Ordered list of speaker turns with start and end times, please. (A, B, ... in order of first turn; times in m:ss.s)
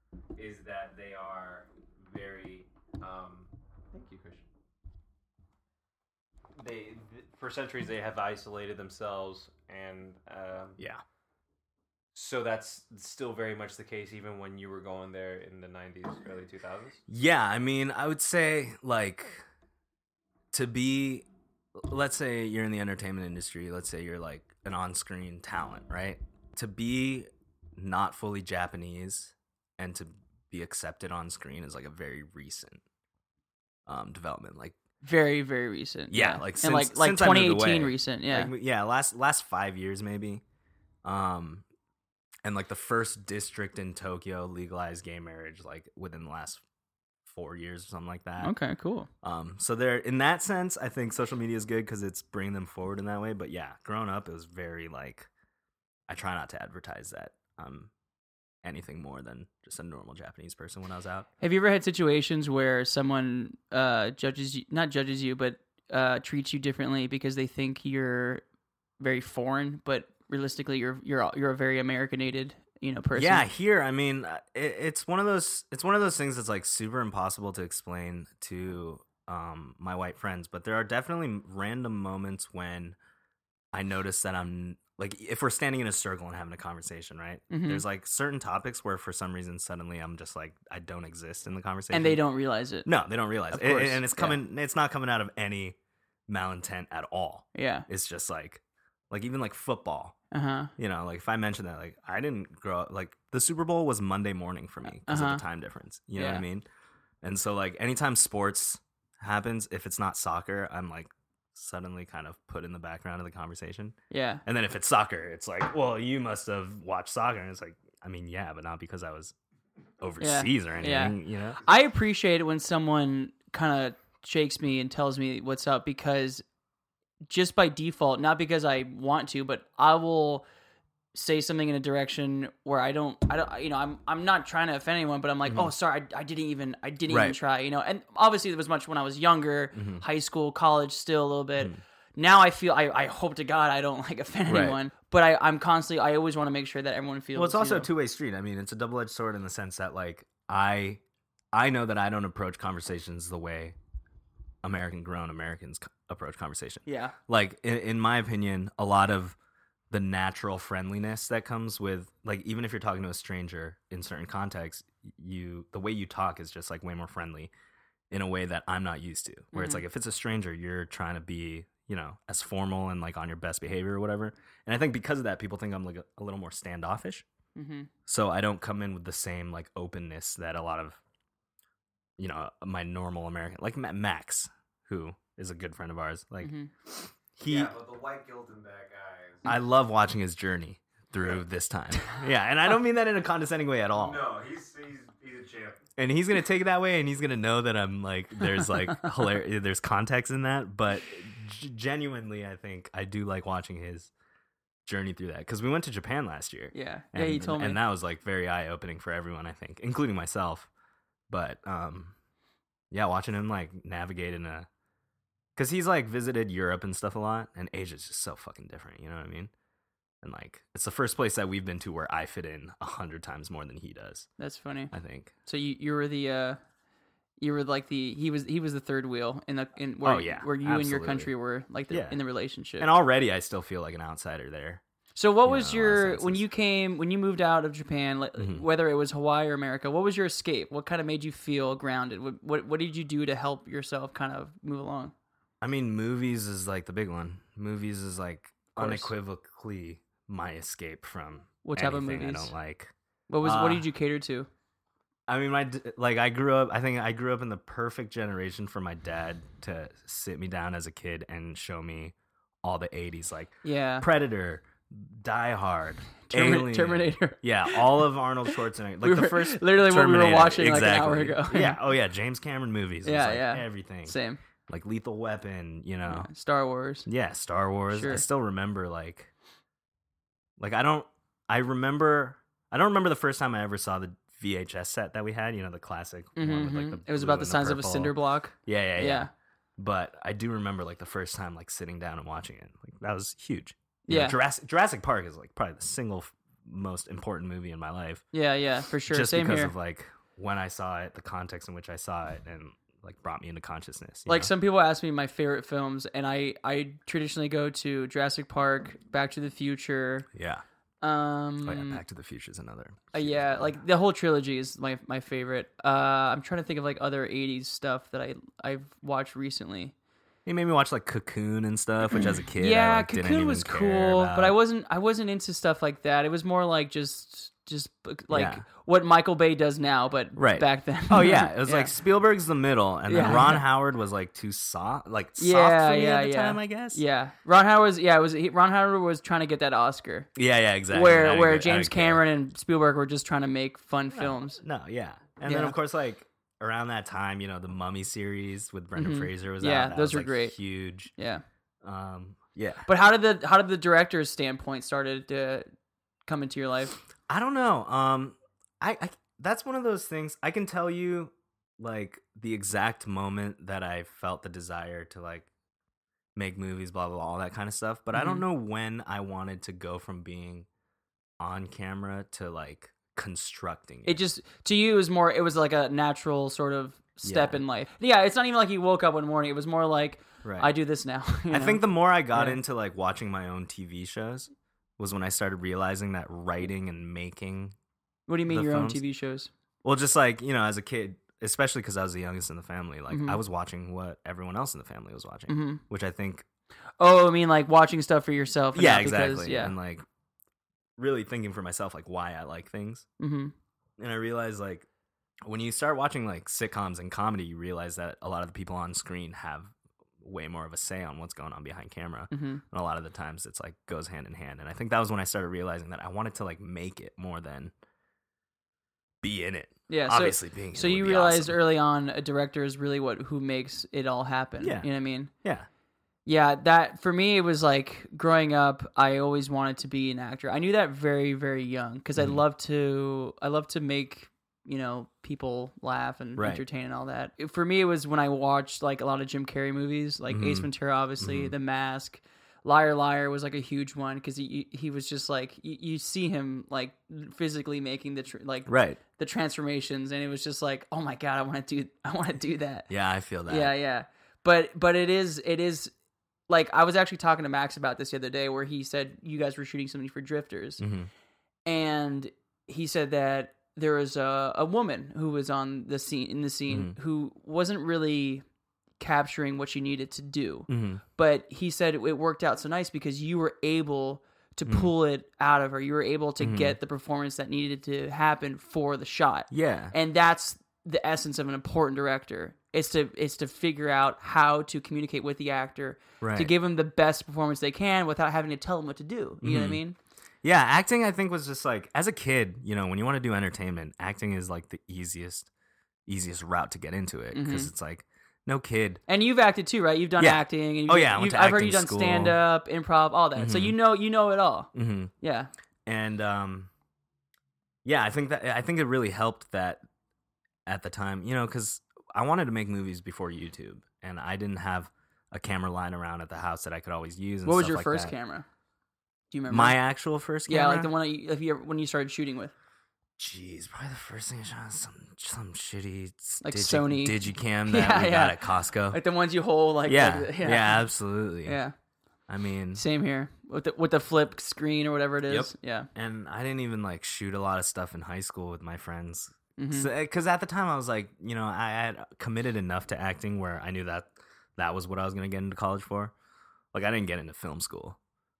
0:00.4-0:04.4 A
0:06.6-0:10.8 A
0:12.1-0:17.0 A
0:17.1-0:19.4 B
0:20.5-0:32.8 B
0:33.8-0:34.8 B
0:35.0-0:38.5 C
0:36.1-0:40.4 B
0:41.0-0:41.6 B
0:42.4-0:46.6 B
0:47.2-0:48.5 B
0:48.4-0:49.1 C
0:49.2-0:55.3 B
0:56.1-0:57.9 B
0:58.6-1:01.3 B
1:01.4-1:08.4 C
1:09.0-1:13.4 C
1:13.1-1:23.0 B
1:23.7-1:32.2 B
1:27.5-1:27.8 C
1:31.9-1:32.9 C
1:32.8-1:35.8 B
1:33.5-1:34.4 C
1:36.3-1:40.2 B
1:37.5-1:37.8 C
1:40.3-1:40.7 C
1:40.8-1:46.6 B
1:44.9-1:45.4 C
1:46.2-1:46.4 C
1:47.2-1:59.3 B
1:54.1-1:54.4 C
2:00.0-2:01.6 B
2:00.2-2:06.4 C
2:07.3-2:10.4 C
2:11.1-2:27.9 C
2:17.1-2:17.4 B
2:19.7-2:20.0 B
2:24.5-2:24.8 B
2:27.3-2:31.0 B
2:31.5-2:33.8 B
2:34.6-2:39.4 B
2:36.8-2:37.1 C
2:39.9-2:47.5 B
2:48.1-2:57.2 B
2:49.5-2:49.8 C
2:57.6-2:57.9 C
2:58.1-3:01.0 B
3:02.2-3:07.7 B
3:06.4-3:06.7 C
3:07.4-3:09.4 A
3:09.4-3:14.2 B
3:13.9-3:15.9 A
3:16.0-3:24.1 B
3:24.8-3:30.7 B
3:26.7-3:27.8 C
3:31.3-3:32.1 B
3:32.9-3:34.7 B
3:35.6-3:39.5 B
3:40.2-3:44.3 B
3:44.4-3:44.9 C
3:44.9-3:45.3 B
3:45.4-3:46.6 C
3:47.4-3:52.9 C
3:50.0-3:51.3 B
3:51.9-3:52.2 B
3:52.8-3:54.8 B
3:55.1-4:05.1 C
3:55.4-3:56.4 B
3:58.4-3:58.6 B
4:05.6-4:13.9 B
4:08.8-4:09.1 C
4:11.6-4:12.5 C
4:13.3-4:14.5 C
4:15.3-4:34.1 B
4:23.6-4:24.1 C
4:26.2-4:28.0 C
4:29.0-4:31.8 C
4:33.0-4:34.4 C
4:34.7-4:36.3 B
4:36.1-4:37.1 C
4:37.0-4:39.3 B
4:37.9-4:38.2 C
4:40.6-4:58.2 B
4:46.4-4:49.3 C
4:54.1-4:54.4 C
4:58.3-4:59.7 C
4:59.1-5:04.5 B
5:04.3-5:10.3 C
5:10.3-5:10.6 B
5:11.0-5:12.0 C
5:11.6-5:13.6 B
5:13.1-5:19.9 C
5:20.4-5:24.5 B
5:22.2-5:31.9 C
5:28.3-5:28.6 B
5:30.4-5:37.0 B
5:33.1-5:33.6 C
5:35.4-5:40.3 C
5:40.4-5:42.2 B
5:40.9-5:44.6 C
5:44.1-5:51.1 B
5:45.4-5:45.7 C
5:49.0-5:50.5 C
5:51.1-5:51.4 C
5:51.8-5:52.9 B
5:52.8-5:55.7 C
5:56.2-5:57.0 C
5:57.3-6:05.5 B
6:06.4-6:10.7 B
6:08.1-6:08.4 C
6:11.4-6:14.2 B
6:14.0-6:22.6 C
6:17.2-6:17.6 B
6:20.4-6:20.7 B
6:21.5-6:27.7 B
6:28.3-6:29.5 C
6:28.5-6:29.0 B
6:29.8-6:36.4 B
6:33.1-6:33.4 C
6:35.5-6:35.8 C
6:37.0-6:39.7 C
6:38.7-6:40.0 B
6:41.0-6:43.0 B
6:43.2-6:43.5 C
6:44.0-6:44.9 B
6:45.4-6:57.7 B
6:52.3-6:52.6 C
6:59.2-7:01.6 B
6:59.9-7:05.3 C
7:04.6-7:04.9 B
7:05.4-7:05.7 B
7:06.2-7:32.9 C
7:16.4-7:16.6 B
7:20.3-7:20.7 B
7:21.2-7:21.5 B
7:28.7-7:29.0 B
7:32.9-7:33.7 B
7:33.5-7:35.9 C
7:36.5-7:40.8 C
7:40.8-7:41.1 B
7:41.6-7:48.4 C
7:46.7-7:47.0 B
7:49.0-8:10.0 C
7:50.7-7:51.0 B
7:54.6-7:54.9 B
7:56.4-7:56.8 B
7:59.5-7:59.9 B
8:06.2-8:06.5 B
8:09.4-8:09.8 B
8:10.4-8:15.5 B
8:16.1-8:19.0 B
8:17.3-8:17.7 C
8:19.1-8:25.5 C
8:20.2-8:22.4 B
8:23.4-8:23.8 B
8:24.7-8:25.1 B
8:25.8-8:26.7 B
8:27.8-8:29.8 B
8:30.6-8:38.1 B
8:37.4-8:38.4 C
8:39.3-8:39.8 C
8:39.5-8:40.9 B
8:40.5-8:42.5 C
8:43.2-8:49.0 B
8:46.4-8:50.8 C
8:49.8-8:51.6 B
8:51.4-8:51.7 C
8:52.3-8:52.8 B
8:52.7-8:55.9 C
8:55.3-9:06.1 B
8:59.6-8:59.9 C
9:06.7-9:08.0 B